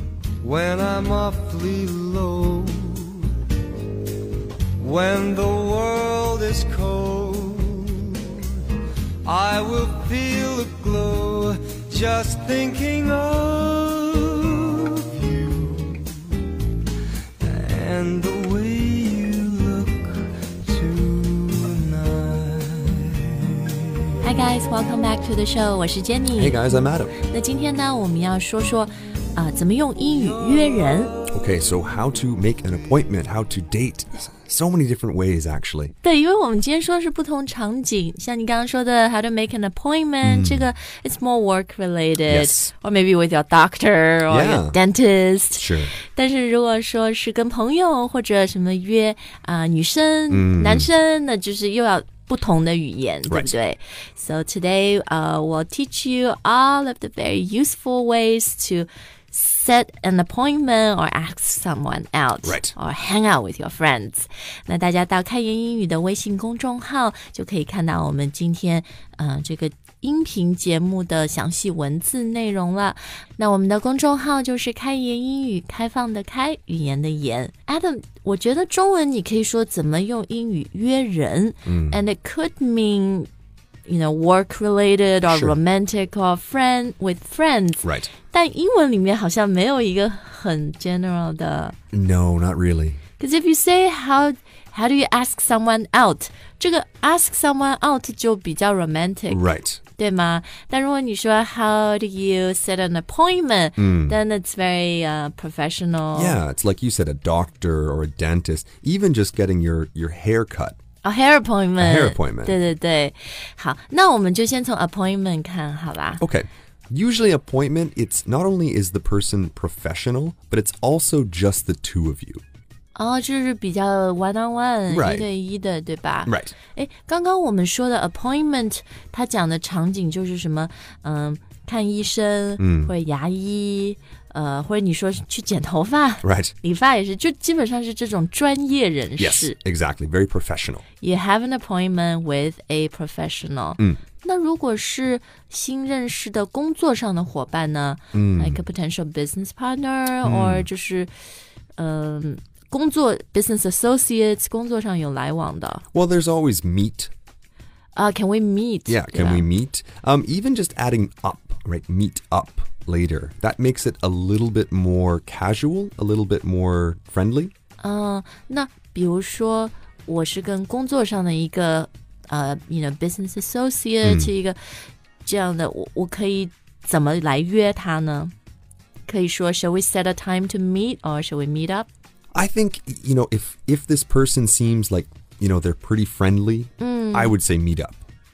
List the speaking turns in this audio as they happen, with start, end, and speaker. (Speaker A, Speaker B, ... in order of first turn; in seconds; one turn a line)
Speaker A: 0.4-3.4
Speaker A: 4.8-8.6
Speaker A: 9.2-16.1
Speaker A: 17.4-24.0
Speaker B: 24.2-26.6
Speaker C: 26.4-27.2
Speaker B: 27.2-31.1
Speaker C: 31.3-35.9
Speaker B: 36.0-83.3
Speaker C: 40.2-40.7
Speaker C: 42.3-42.7
Speaker C: 44.3-44.8
Speaker C: 45.6-45.9
Speaker C: 50.3-50.9
Speaker C: 53.3-53.5
Speaker C: 62.4-62.8
Speaker C: 81.7-82.0
Speaker B: 83.9-91.8
Speaker C: 85.3-85.6
Speaker C: 87.8-88.1
Speaker C: 91.9-93.0
Speaker B: 93.2-99.5
Speaker C: 99.3-99.8
Speaker B: 100.0-106.4
Speaker C: 103.8-104.2
Speaker C: 106.1-110.8
Speaker B: 111.0-116.2
Speaker C: 111.8-112.6
Speaker C: 116.2-122.4
Speaker B: 123.0-139.6
Speaker C: 124.9-125.3
Speaker C: 126.3-126.5
Speaker C: 132.6-132.9
Speaker C: 136.2-136.5
Speaker C: 139.2-140.8
Speaker B: 141.0-151.1
Speaker C: 148.1-148.6
Speaker C: 150.2-150.7
Speaker B: 151.8-155.8
Speaker C: 155.9-157.1
Speaker B: 158.0-159.5
Speaker C: 158.9-167.5
Speaker B: 167.8-174.6
Speaker C: 174.0-174.3
Speaker B: 175.2-178.3
Speaker B: 179.1-181.9
Speaker C: 182.3-188.0
Speaker B: 186.8-187.3